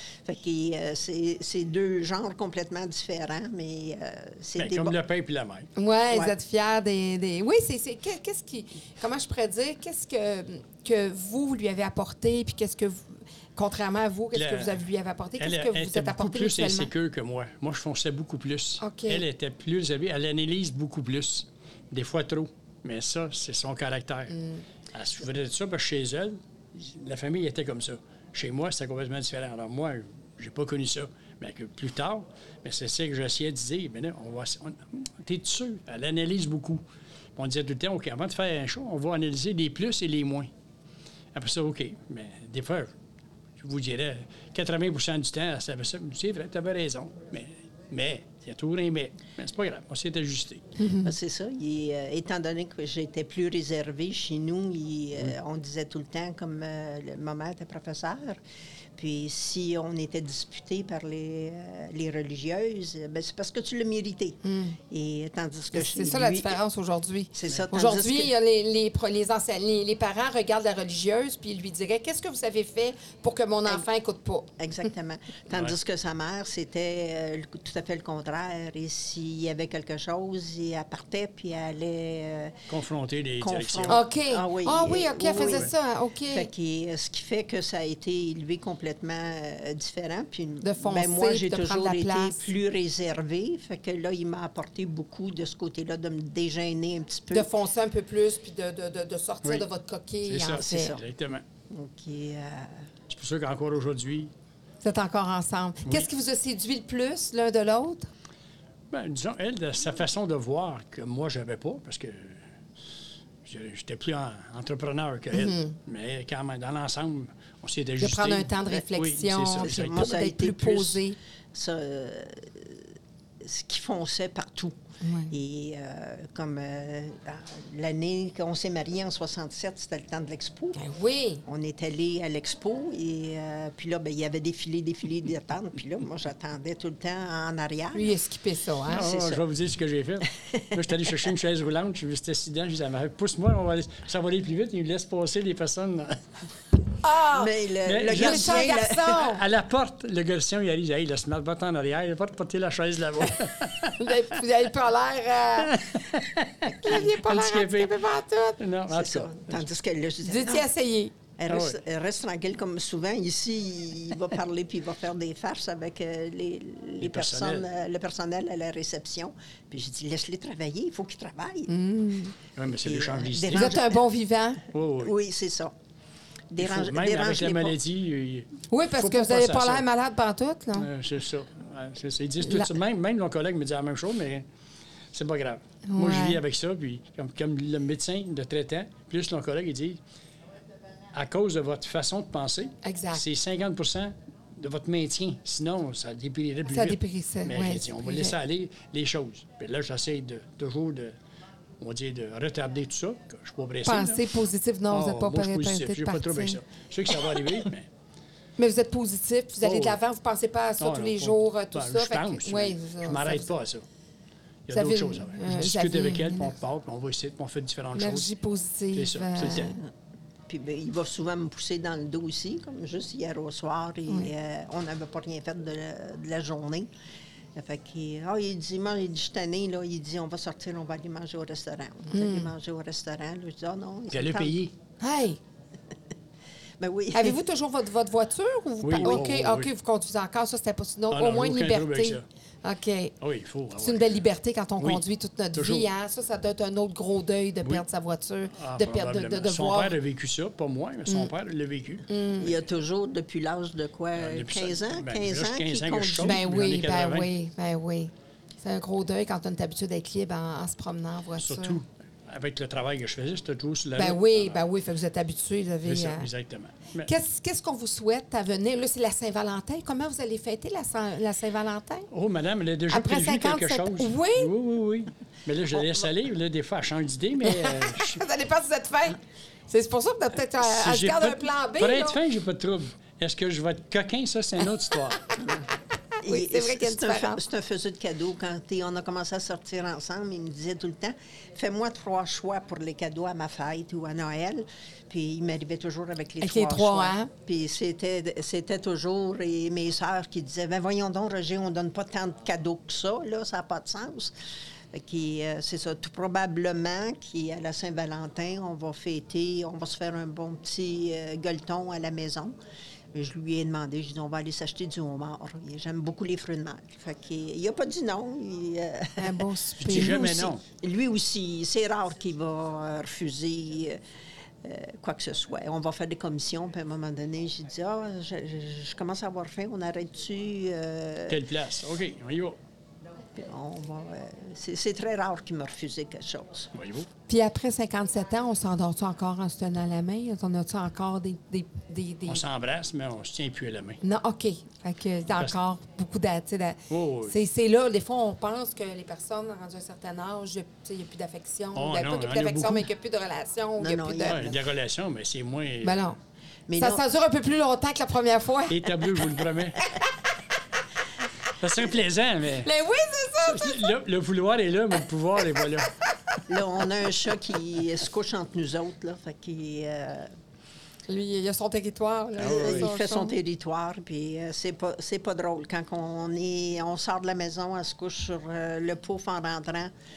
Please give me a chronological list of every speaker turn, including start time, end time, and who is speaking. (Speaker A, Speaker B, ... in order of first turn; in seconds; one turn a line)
Speaker A: 0.2-5.0
Speaker B: 4.6-5.7
Speaker C: 5.8-16.9
Speaker B: 14.3-14.8
Speaker B: 15.4-24.4
Speaker C: 18.8-19.2
Speaker C: 24.3-24.6
Speaker B: 24.9-36.8
Speaker B: 37.4-40.5
Speaker B: 41.3-42.9
Speaker B: 43.6-50.7
Speaker C: 50.8-51.1
Speaker A: 51.0-58.4
Speaker A: 59.0-66.6
Speaker C: 64.4-64.8
Speaker C: 65.7-74.5
Speaker A: 67.3-68.3
Speaker A: 74.6-82.6
Speaker B: 82.7-84.0
Speaker A: 83.4-85.7
Speaker C: 83.9-86.5
Speaker B: 85.4-85.7
Speaker A: 86.3-97.5
Speaker C: 90.6-92.5
Speaker C: 97.3-101.0
Speaker B: 100.3-101.5
Speaker A: 100.6-101.0
Speaker A: 101.7-102.8
Speaker B: 103.1-104.3
Speaker C: 104.8-108.1
Speaker B: 108.9-112.4
Speaker B: 113.5-120.1
Speaker C: 115.3-115.8
Speaker C: 118.0-121.2
Speaker A: 119.6-124.8
Speaker C: 125.0-125.3
Speaker A: 125.3-130.8
Speaker C: 130.8-131.4
Speaker A: 131.4-138.1
Speaker C: 137.9-139.1
Speaker B: 138.9-146.3
Speaker A: 138.9-139.4
Speaker A: 140.5-141.1
Speaker C: 147.0-147.5
Speaker A: 147.3-149.2
Speaker B: 147.8-154.2
Speaker C: 148.1-149.4
Speaker C: 153.9-155.9
Speaker B: 155.6-158.0
Speaker C: 156.7-158.6
Speaker B: 158.6-159.6
Speaker A: 158.9-160.7
Speaker C: 160.2-161.1
Speaker A: 161.4-171.7
Speaker B: 161.5-161.8
Speaker B: 167.0-167.7
Speaker C: 171.7-172.3
Speaker B: 172.6-173.7
Speaker A: 172.7-174.0
Speaker C: 173.5-174.6
Speaker B: 174.7-175.1
Speaker A: 175.0-175.8
Speaker A: 176.5-177.8
Speaker B: 176.6-179.8
Speaker C: 178.7-180.9
Speaker B: 180.8-184.4
Speaker C: 182.4-182.7
Speaker B: 185.1-190.0
Speaker C: 185.9-186.4
Speaker B: 191.1-201.1
Speaker C: 192.8-193.2
Speaker C: 196.7-198.3
Speaker B: 201.8-204.2
Speaker C: 203.8-206.6
Speaker B: 204.9-207.9
Speaker C: 207.1-207.4
Speaker C: 208.6-213.5
Speaker B: 209.6-210.0
Speaker B: 210.8-213.8
Speaker B: 214.7-218.3
Speaker C: 214.7-216.6
Speaker C: 217.9-219.8
Speaker B: 218.9-219.8
Speaker A: 220.5-226.9
Speaker A: 227.6-234.6
Speaker C: 232.1-232.5
Speaker B: 234.1-234.8
Speaker C: 235.0-235.4
Speaker A: 236.8-237.4
Speaker C: 237.1-243.1
Speaker B: 238.8-239.7
Speaker B: 241.1-242.2
Speaker B: 243.2-244.2
Speaker C: 243.8-249.9
Speaker B: 244.8-245.9
Speaker B: 248.5-252.1
Speaker C: 252.1-252.6
Speaker A: 252.4-256.4
Speaker B: 254.2-257.3
Speaker C: 256.2-261.8
Speaker B: 261.4-264.6
Speaker C: 264.0-266.3
Speaker B: 265.8-267.1
Speaker C: 267.1-272.1
Speaker B: 272.1-278.2
Speaker C: 272.9-274.5
Speaker C: 277.4-282.2
Speaker B: 280.6-285.2
Speaker A: 285.4-285.7
Speaker C: 286.2-287.4
Speaker A: 286.2-304.3
Speaker C: 296.4-297.3
Speaker A: 304.9-312.6
Speaker A: 313.1-324.0
Speaker C: 319.2-320.5
Speaker B: 319.8-320.6
Speaker A: 324.6-331.4
Speaker B: 331.3-332.6
Speaker A: 333.3-336.7
Speaker B: 336.7-337.1
Speaker C: 337.3-342.4
Speaker B: 342.3-344.0
Speaker C: 344.0-354.5
Speaker B: 346.9-347.4
Speaker B: 351.8-352.9
Speaker A: 353.8-354.6
Speaker B: 354.3-356.0
Speaker C: 355.8-356.2
Speaker A: 356.7-357.0
Speaker C: 356.8-360.1
Speaker B: 358.7-359.8
Speaker B: 361.5-362.7
Speaker C: 362.6-363.9
Speaker B: 363.5-365.9
Speaker A: 366.5-370.3
Speaker C: 371.1-373.4
Speaker B: 372.4-372.9
Speaker A: 372.4-379.9